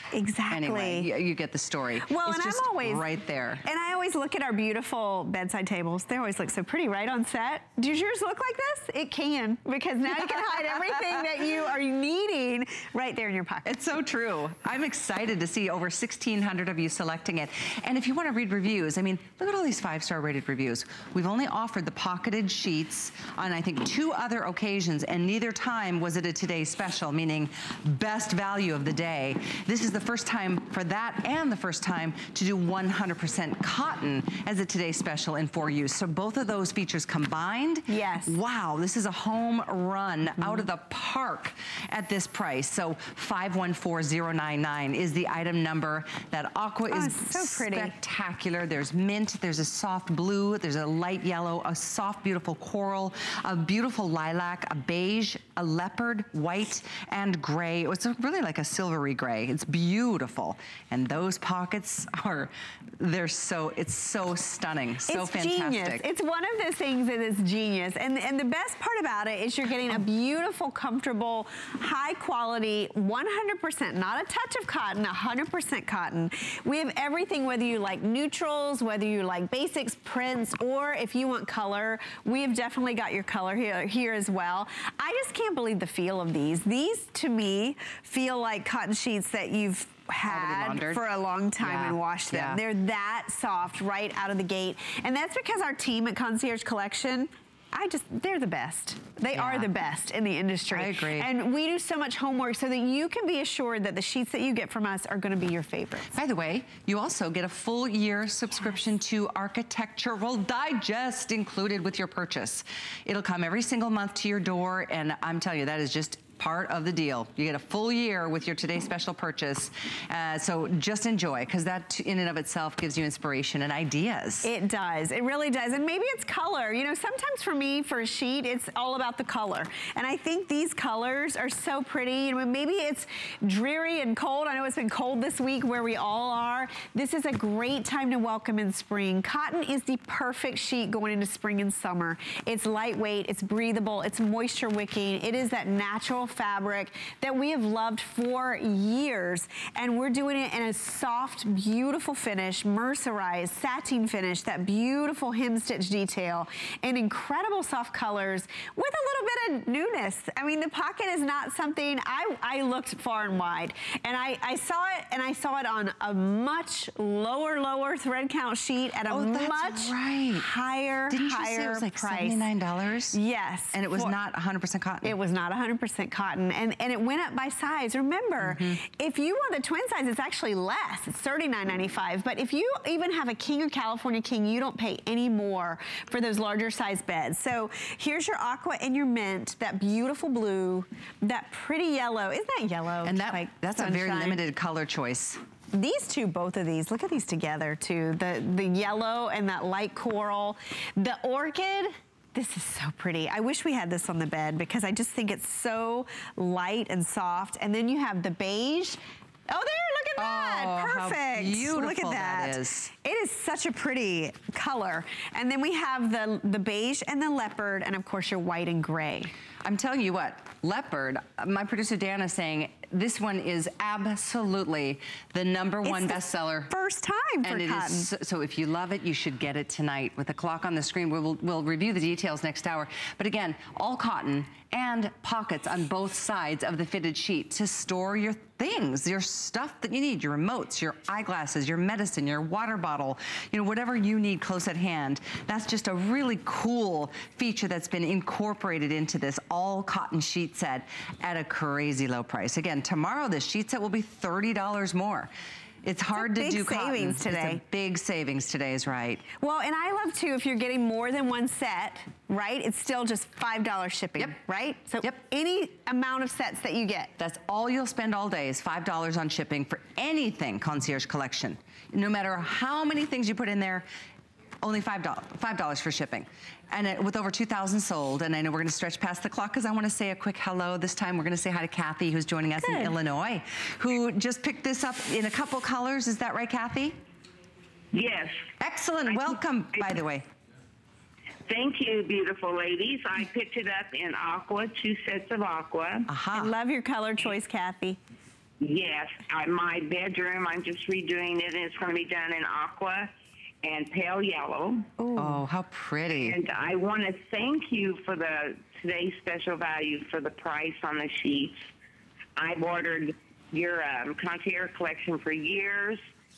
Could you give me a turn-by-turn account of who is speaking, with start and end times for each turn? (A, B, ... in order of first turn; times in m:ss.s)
0:00.1-0:01.1 A
0:00.5-0:03.6 B
0:02.1-0:03.1 A
0:03.6-0:13.8 A
0:10.1-0:11.4 B
0:13.6-1:06.0 B
0:37.9-0:38.4 A
0:40.4-0:40.7 A
0:46.9-0:47.9 A
1:05.1-1:46.1 A
1:30.2-1:31.0 B
1:31.6-1:32.6 B
1:39.3-1:39.7 B
1:40.7-1:41.3 B
1:46.1-2:04.5 B
2:04.4-2:52.4 A
2:49.1-2:50.5 B
2:51.1-2:53.2 B
2:53.1-2:54.1 A
2:53.7-2:55.2 B
2:55.0-3:14.4 A
2:58.4-2:58.8 B
3:13.0-3:15.4 B
3:15.7-3:39.3 A
3:30.2-3:32.9 B
3:39.6-3:46.7 B
3:45.8-3:48.1 A
3:47.4-4:15.3 B
4:15.8-4:19.2 B
4:16.2-4:17.6 A
4:19.4-4:27.1 A
4:27.2-4:33.9 B
4:34.6-4:47.0 B
4:47.9-4:48.4 C
4:48.6-4:50.2 B
4:49.1-4:49.9 C
4:51.5-4:56.1 C
4:56.1-4:56.5 B
4:56.3-4:58.0 A
4:58.6-5:03.1 C
5:03.6-5:04.9 C
5:05.0-5:05.4 A
5:05.1-5:06.4 B
5:06.2-5:11.6 C
5:12.4-5:16.0 C